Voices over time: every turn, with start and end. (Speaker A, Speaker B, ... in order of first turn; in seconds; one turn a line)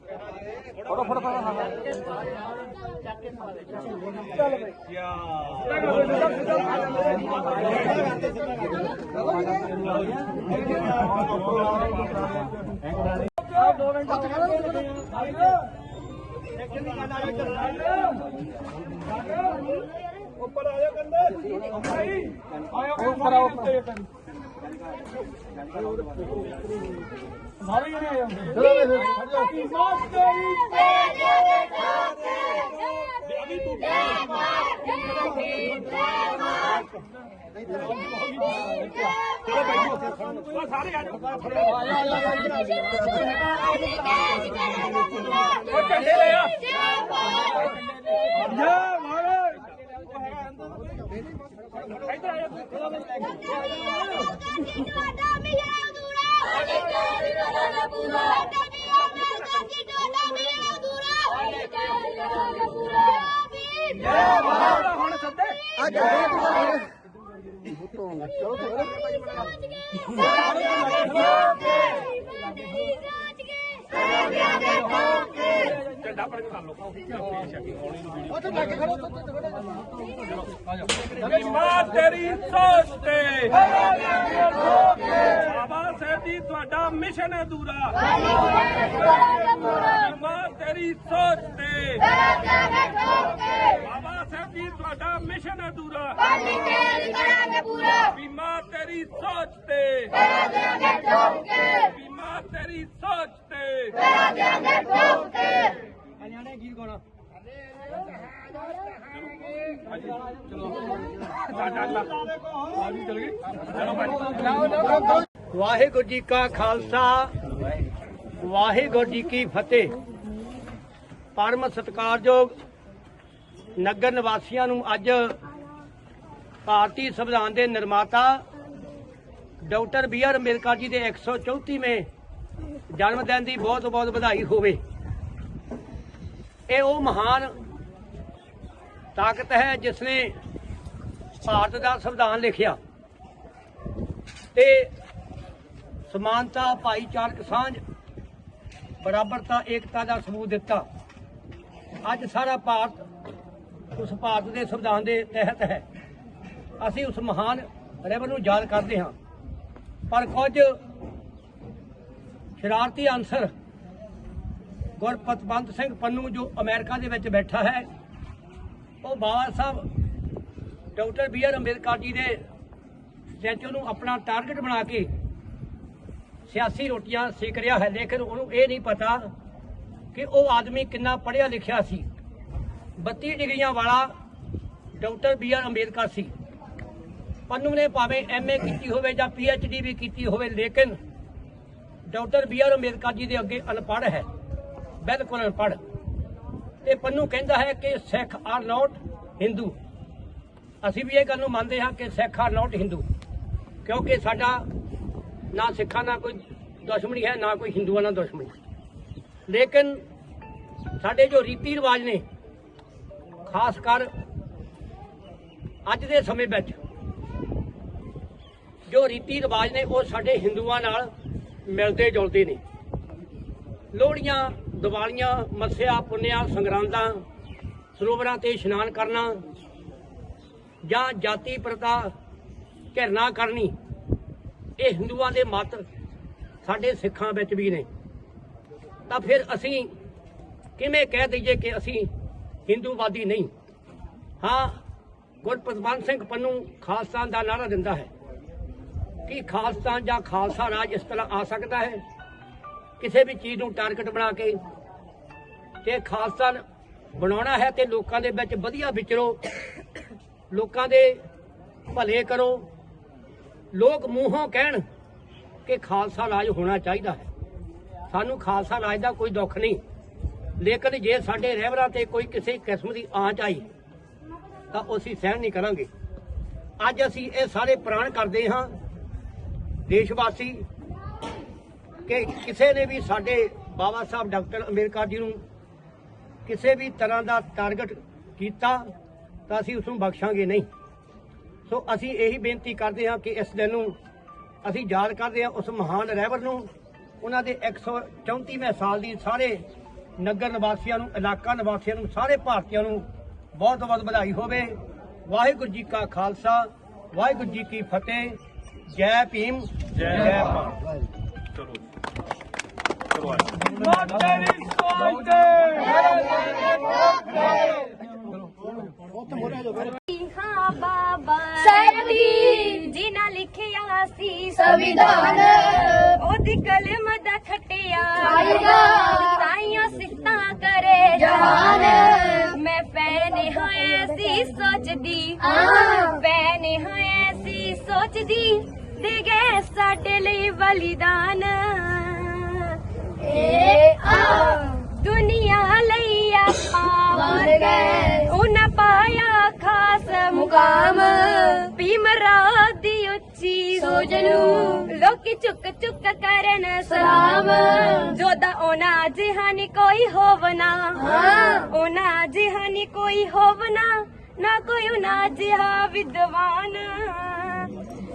Speaker A: 0.8-1.8
Speaker A: 4.8-7.2
Speaker B: 7.9-8.3
Speaker A: 13.4-15.5
Speaker B: 16.8-17.7
Speaker A: 20.4-24.0
Speaker A: 27.7-31.1
Speaker A: 32.4-34.5
Speaker A: 38.6-42.7
Speaker A: 45.6-46.7
Speaker A: 48.4-49.6
Speaker A: 52.0-53.2
Speaker A: 64.3-65.7
Speaker A: 75.7-78.9
Speaker A: 81.1-92.2
Speaker A: 93.7-96.3
Speaker C: 96.8-98.0
Speaker A: 98.0-100.4
Speaker A: 101.7-104.5
Speaker B: 106.4-106.8
Speaker A: 111.4-114.8
Speaker B: 115.5-117.3
Speaker B: 118.4-119.9
Speaker B: 121.3-122.5
Speaker B: 123.8-125.4
Speaker B: 126.7-128.4
Speaker B: 129.6-132.1
Speaker B: 132.9-134.8
Speaker B: 136.7-137.6
Speaker B: 139.2-140.3
Speaker B: 141.4-142.8
Speaker B: 144.5-144.9
Speaker B: 146.1-147.8
Speaker B: 149.0-150.8
Speaker B: 152.0-153.1
Speaker B: 153.9-155.8
Speaker B: 156.8-159.1
Speaker B: 160.1-160.8
Speaker B: 162.6-163.5
Speaker B: 165.0-167.9
Speaker B: 169.0-169.9
Speaker B: 171.0-172.4
Speaker B: 173.4-175.1
Speaker B: 176.5-179.3
Speaker B: 180.1-182.1
Speaker B: 183.0-184.1
Speaker B: 185.0-186.3
Speaker B: 187.5-191.0
Speaker B: 192.1-194.2
Speaker B: 195.0-195.8
Speaker B: 196.8-199.8
Speaker B: 200.8-203.1
Speaker B: 203.8-204.7
Speaker B: 205.5-208.5
Speaker B: 209.5-210.0
Speaker B: 211.0-212.2
Speaker B: 213.5-214.1
Speaker B: 215.9-216.8
Speaker B: 218.9-221.1
Speaker B: 221.7-222.6
Speaker B: 223.9-227.2
Speaker B: 228.0-229.4
Speaker B: 230.8-232.1
Speaker B: 232.9-233.7
Speaker B: 234.8-235.8
Speaker B: 236.6-237.9
Speaker B: 239.1-239.9
Speaker B: 240.8-242.1
Speaker B: 242.7-243.5
Speaker B: 244.4-244.8
Speaker B: 245.4-248.1
Speaker B: 249.3-252.0
Speaker B: 253.0-254.6
Speaker B: 255.8-256.6
Speaker B: 257.2-259.4
Speaker B: 260.5-261.2
Speaker B: 261.9-262.7
Speaker B: 263.7-264.8
Speaker B: 265.7-267.3
Speaker B: 268.1-269.8
Speaker B: 270.6-273.7
Speaker B: 274.7-275.9
Speaker B: 276.8-278.7
Speaker B: 279.9-280.6
Speaker B: 282.1-285.4
Speaker B: 286.5-288.9
Speaker B: 289.5-290.7
Speaker B: 291.7-293.9
Speaker B: 294.6-296.7
Speaker B: 297.2-299.6
Speaker B: 300.2-310.8
Speaker A: 313.2-316.3
Speaker D: 319.9-324.8
Speaker C: 321.6-322.8
Speaker C: 324.6-326.1
Speaker D: 325.9-342.8
Speaker C: 328.3-329.3
Speaker C: 331.2-332.5
Speaker C: 335.5-336.1
Speaker C: 343.2-344.8
Speaker D: 344.8-347.5
Speaker C: 347.1-348.3
Speaker D: 348.2-350.5
Speaker C: 350.3-351.7
Speaker D: 351.7-354.0
Speaker C: 353.8-354.9
Speaker D: 354.7-357.1
Speaker C: 356.9-358.1
Speaker D: 358.0-367.8
Speaker C: 361.0-361.6